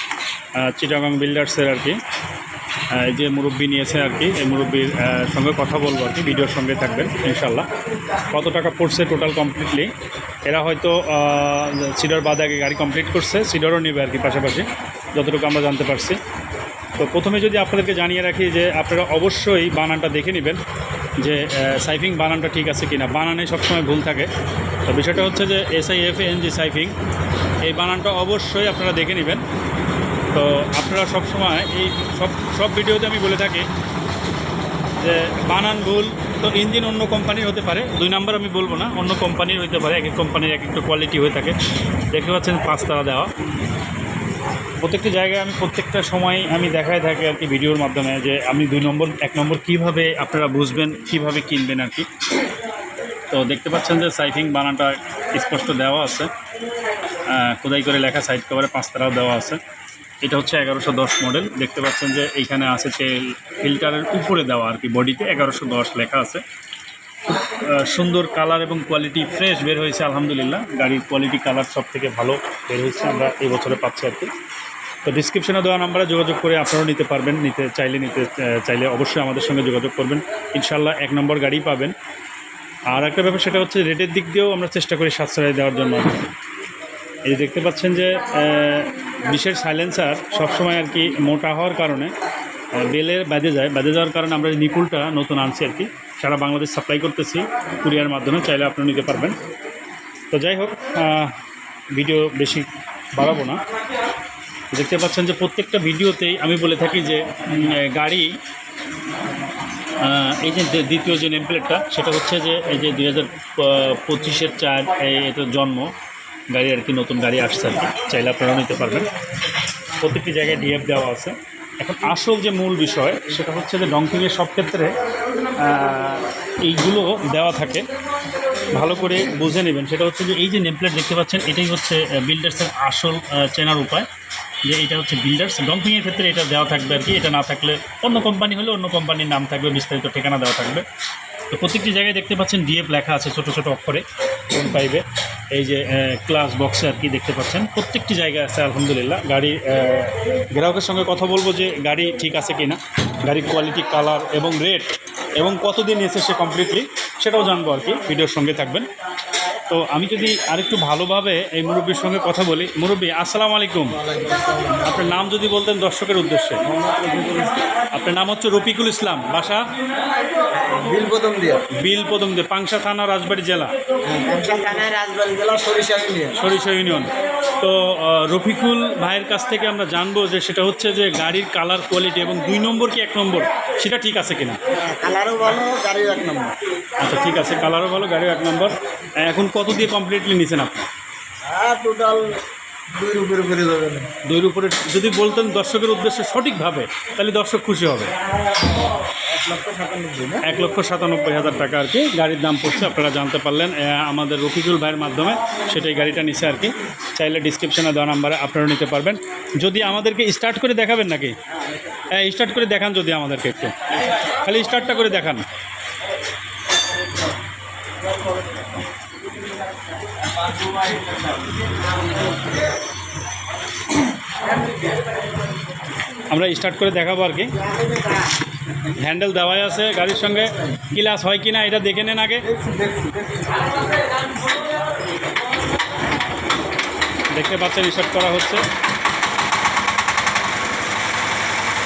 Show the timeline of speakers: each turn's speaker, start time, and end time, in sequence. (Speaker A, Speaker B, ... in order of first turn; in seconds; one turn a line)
Speaker A: 0.6-2.0
Speaker A: 2.9-7.7
Speaker A: 8.3-9.9
Speaker A: 10.5-16.2
Speaker A: 17.0-20.6
Speaker A: 21.2-24.3
Speaker A: 24.9-26.9
Speaker A: 27.6-29.4
Speaker A: 30.3-33.7
Speaker A: 34.9-41.5
Speaker A: 42.1-43.3
Speaker A: 44.8-52.1
Speaker A: 53.3-56.3
Speaker A: 57.2-59.6
Speaker A: 60.2-66.4
Speaker A: 67.3-74.3
Speaker A: 75.0-81.9
Speaker A: 82.9-86.3
Speaker A: 87.2-92.1
Speaker A: 92.7-99.4
Speaker A: 100.3-101.3
Speaker A: 101.9-103.6
Speaker A: 104.7-108.4
Speaker A: 110.0-115.9
Speaker A: 116.5-119.1
Speaker A: 120.0-127.9
Speaker A: 128.7-134.1
Speaker A: 134.6-140.8
Speaker A: 141.5-158.9
Speaker A: 159.6-166.6
Speaker B: 164.0-164.9
Speaker B: 166.7-167.6
Speaker A: 167.9-169.7
Speaker B: 170.5-171.6
Speaker A: 171.8-173.7
Speaker B: 174.1-176.4
Speaker A: 176.3-184.6
Speaker B: 184.7-186.6
Speaker A: 187.0-190.9
Speaker B: 191.4-194.1
Speaker A: 194.2-198.1
Speaker B: 199.2-200.4
Speaker A: 200.4-211.4
Speaker A: 212.1-215.5
Speaker A: 226.3-227.7
Speaker A: 228.8-232.6
Speaker B: 232.5-233.6
Speaker A: 237.3-238.6